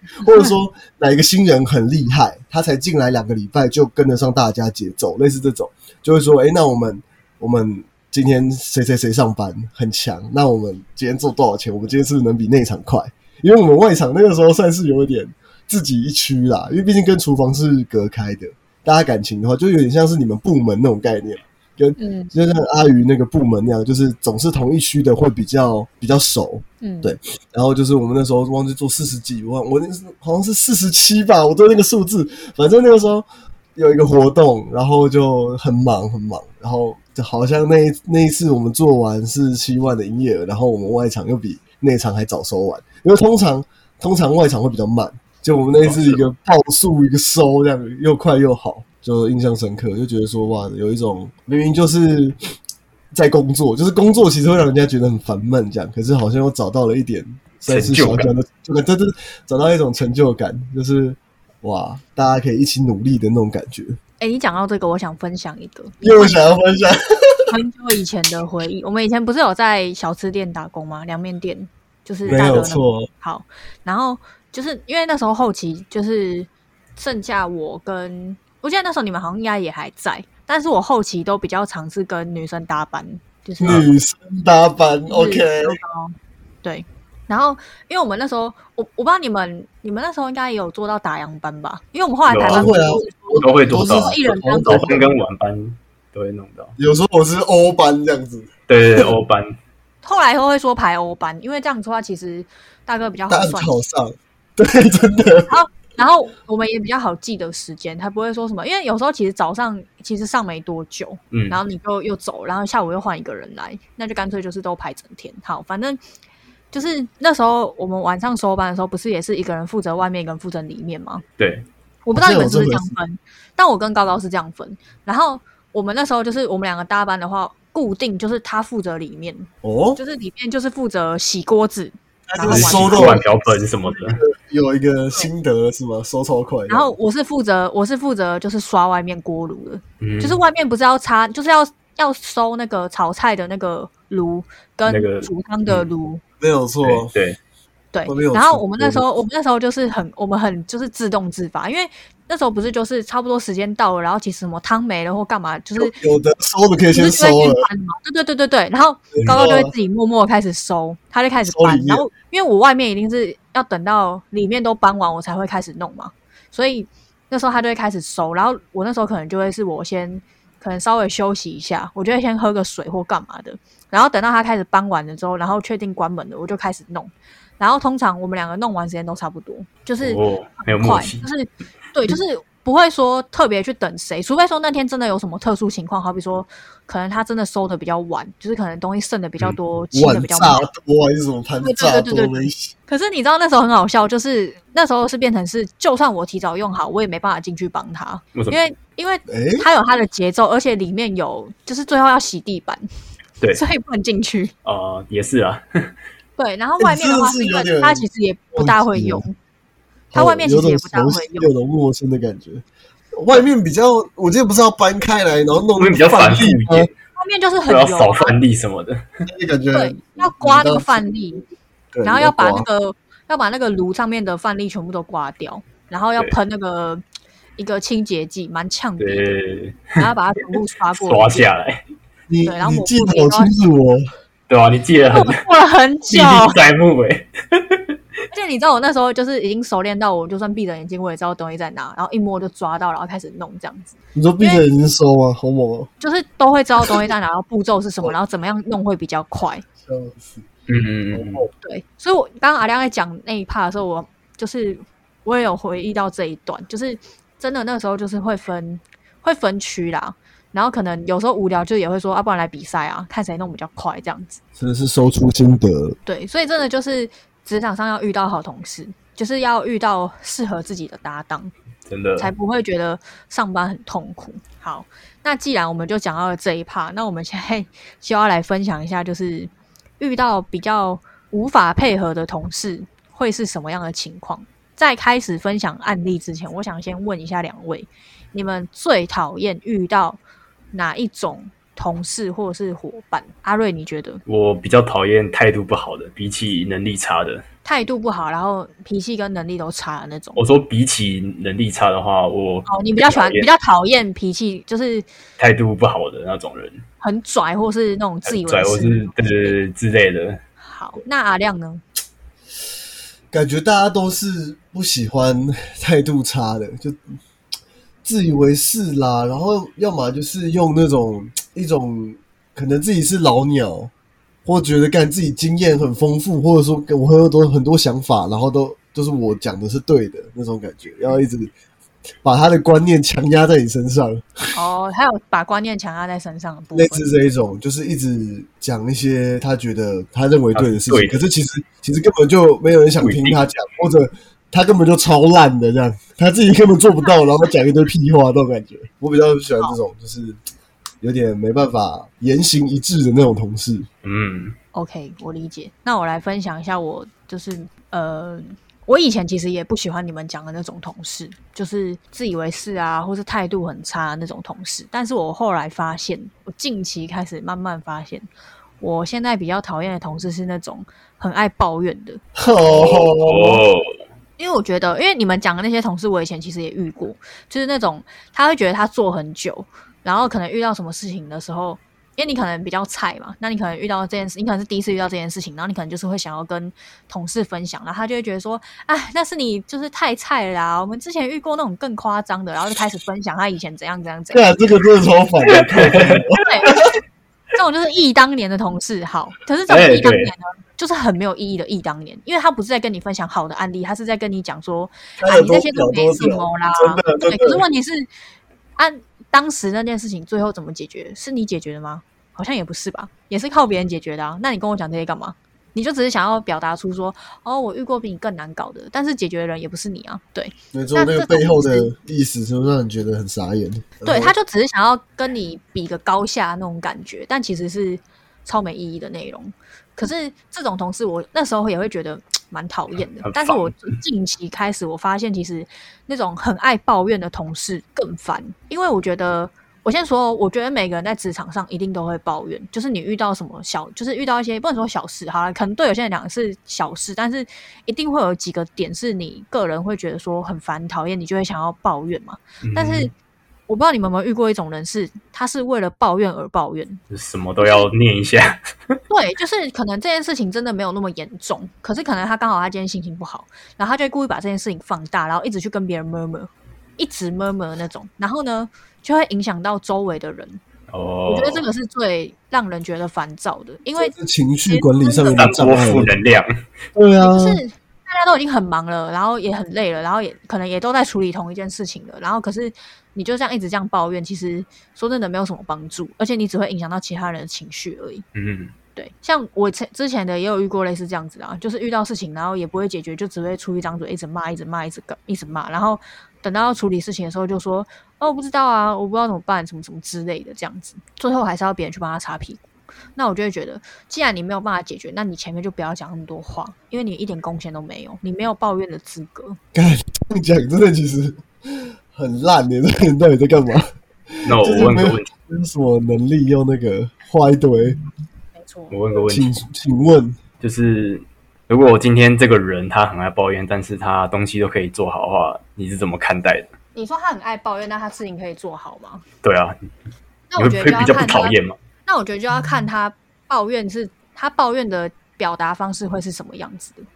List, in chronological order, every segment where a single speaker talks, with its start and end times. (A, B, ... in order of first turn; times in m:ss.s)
0:00.2-0:33.2 A
0:22.0-0:22.3 B
0:26.8-0:27.1 B
0:33.8-0:52.4 A
0:45.8-0:46.2 C
0:53.1-1:04.0 A
0:57.6-0:58.3 C
1:04.2-1:06.4 B
1:06.0-1:07.5 A
1:07.5-1:23.8 B
1:12.2-1:13.1 A
1:23.6-1:25.8 A
1:23.6-1:23.9 C
1:25.1-1:34.9 B
1:32.3-1:32.8 C
1:32.4-1:35.1 A
1:33.4-1:36.7 C
1:36.8-1:39.1 A
1:38.7-1:39.5 C
1:40.0-1:43.7 B
1:43.3-1:45.5 A
1:45.5-1:56.0 B
1:51.3-1:51.6 C
1:56.7-2:01.2 B
2:01.4-2:01.6 C
2:02.1-2:13.2 B
2:02.1-2:02.9 A
2:09.6-2:10.0 A
2:12.3-2:16.9 A
2:12.5-2:14.2 C
2:16.7-2:26.2 B
2:20.0-2:20.4 C
2:24.8-2:25.9 C
2:26.4-2:27.1 A
2:26.8-2:27.4 C
2:27.9-2:36.0 B
2:28.1-2:29.0 A
2:35.8-2:37.6 A
2:36.9-3:10.7 B
2:39.1-2:39.7 A
2:41.4-2:42.1 A
3:00.0-3:01.2 C
3:09.9-3:12.7 A
3:11.6-3:22.9 B
3:18.4-3:18.6 C
3:19.3-3:19.7 A
3:23.6-3:24.5 B
3:24.6-3:25.9 C
3:26.4-3:29.4 B
3:26.8-3:29.2 A
3:30.1-3:36.9 A
3:30.1-3:31.5 B
3:35.8-3:36.9 C
3:37.2-3:38.4 B
3:37.7-3:39.2 C
3:39.3-3:40.9 A
3:39.7-3:41.4 B
3:41.9-3:42.7 A
3:42.0-3:47.0 B
3:47.6-3:49.4 B
3:49.0-3:50.0 C
3:50.0-3:51.5 B
3:51.0-3:51.8 C
3:52.3-3:54.0 A
3:52.4-3:53.5 B
3:54.5-3:55.4 C
3:55.1-3:56.6 B
3:56.1-3:57.8 C
3:58.3-4:04.6 B
4:04.2-4:05.9 A
4:06.0-4:09.7 B
4:09.8-4:10.5 A
4:10.7-4:11.4 C
4:11.1-4:11.5 A
4:11.6-4:24.4 B
4:24.6-4:26.0 A
4:26.1-4:31.5 B
4:31.9-4:32.3 C
4:32.2-4:50.2 B
4:50.7-4:54.2 B
4:54.3-4:57.4 C
4:57.6-5:00.4 B
5:00.4-5:03.5 C
5:02.7-5:05.1 B
5:05.4-5:06.8 C
5:07.0-5:09.6 B
5:08.3-5:10.4 C
5:10.6-5:11.8 B
5:13.3-5:17.0 A
5:18.0-5:23.9 A
5:24.4-5:31.5 A
5:32.2-5:34.5 A
5:34.5-5:37.1 B
5:36.7-5:50.4 A
5:40.5-5:41.3 C
5:43.0-5:43.4 C
5:51.0-5:53.9 A
5:54.0-5:54.6 C
5:54.7-6:08.3 B
6:08.8-6:12.2 B
6:12.4-6:13.6 A
6:12.7-6:13.9 C
6:14.4-6:34.6 B
6:34.3-6:36.9 A
6:35.5-6:36.8 C
6:36.4-6:36.8 B
6:37.5-6:48.1 B
6:39.7-6:40.3 C
6:45.2-6:47.6 A
6:48.8-7:01.9 B
7:00.7-7:04.4 A
7:04.0-7:33.1 B
7:13.2-7:13.9 C
7:32.6-7:33.1 C
7:33.7-7:37.0 B
7:37.1-7:39.0 C
7:37.6-7:37.9 B
7:39.1-7:50.6 B
7:50.9-7:51.6 C
7:51.3-7:54.1 B
7:54.0-7:56.1 A
7:54.7-7:55.3 B
7:55.2-7:56.6 C
7:57.0-7:57.6 A
7:57.2-8:08.2 B
8:08.4-8:08.7 C
8:09.0-8:22.6 B
8:23.2-8:29.6 B
8:29.7-8:38.0 A
8:34.4-8:35.3 C
8:38.6-8:38.9 B
8:38.9-8:39.6 C
8:39.3-8:40.4 A
8:40.6-8:46.7 C
8:47.0-8:49.2 B
8:49.4-8:49.8 C
8:50.5-8:51.6 B
8:50.6-8:51.8 C
8:52.1-8:57.1 B